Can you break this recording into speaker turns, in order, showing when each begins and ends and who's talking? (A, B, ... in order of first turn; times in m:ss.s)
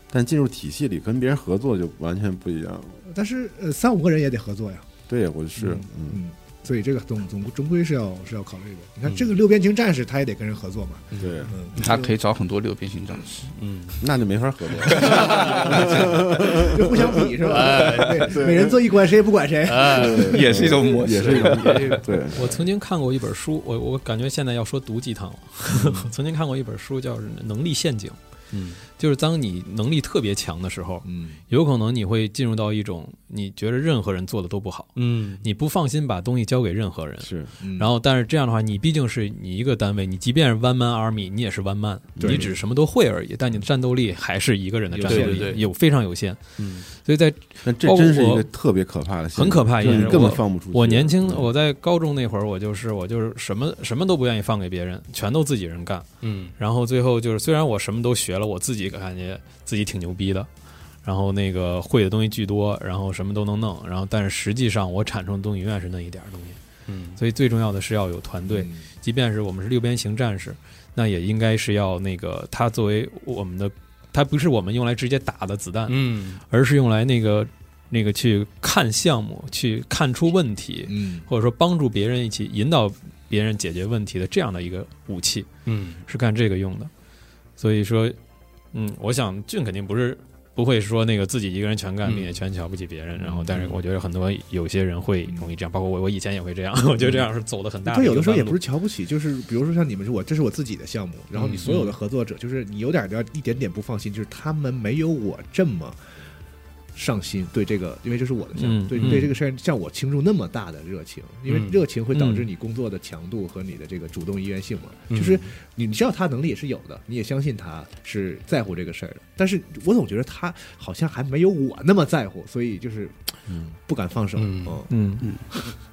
0:00.1-0:03.0 A
0:03.0-0:04.9 B
0:05.1-0:06.2 A
0:05.6-0:12.1 B
0:11.1-0:11.4 C
0:11.2-0:11.5 A
0:11.7-0:13.6 D
0:13.6-0:14.0 C
0:14.0-0:17.1 A
0:14.9-0:15.9 C
0:15.7-0:20.4 B
0:17.5-0:18.4 C
0:18.2-0:18.7 A
0:19.6-0:22.6 C
0:19.9-0:22.4 A
0:20.0-0:22.0 D
0:22.3-0:28.2 E
0:25.8-0:26.0 B
0:28.5-0:28.8 C
0:28.8-0:48.4 E
0:31.0-0:31.4 B
0:35.0-0:35.4 C
0:37.2-0:37.5 A
0:37.6-0:37.9 B
0:42.2-0:42.4 A
0:44.9-0:45.6 B
0:45.0-0:45.6 C
0:46.6-0:46.8 C
0:47.6-0:51.5 A
0:49.3-1:00.5 E
0:56.2-0:56.6 C
1:01.0-1:06.6 E
1:06.9-1:07.2 C
1:07.2-1:25.5 E
1:08.5-1:08.9 B
1:15.9-1:16.4 C
1:20.8-1:21.3 B
1:25.6-1:26.0 C
1:26.0-1:26.9 E
1:27.6-1:28.2 E
1:28.7-1:38.6 E
1:33.2-1:33.5 B
1:35.2-1:35.5 B
1:37.8-1:46.0 B
1:41.4-1:41.8 C
1:41.5-1:41.9 E
1:46.9-2:04.9 B
1:48.6-1:49.3 E
1:48.9-1:49.3 C
1:51.5-1:51.8 C
1:52.1-1:52.5 E
1:55.1-1:55.5 C
2:04.4-2:04.8 C
2:04.9-2:05.3 E
2:05.2-2:05.7 D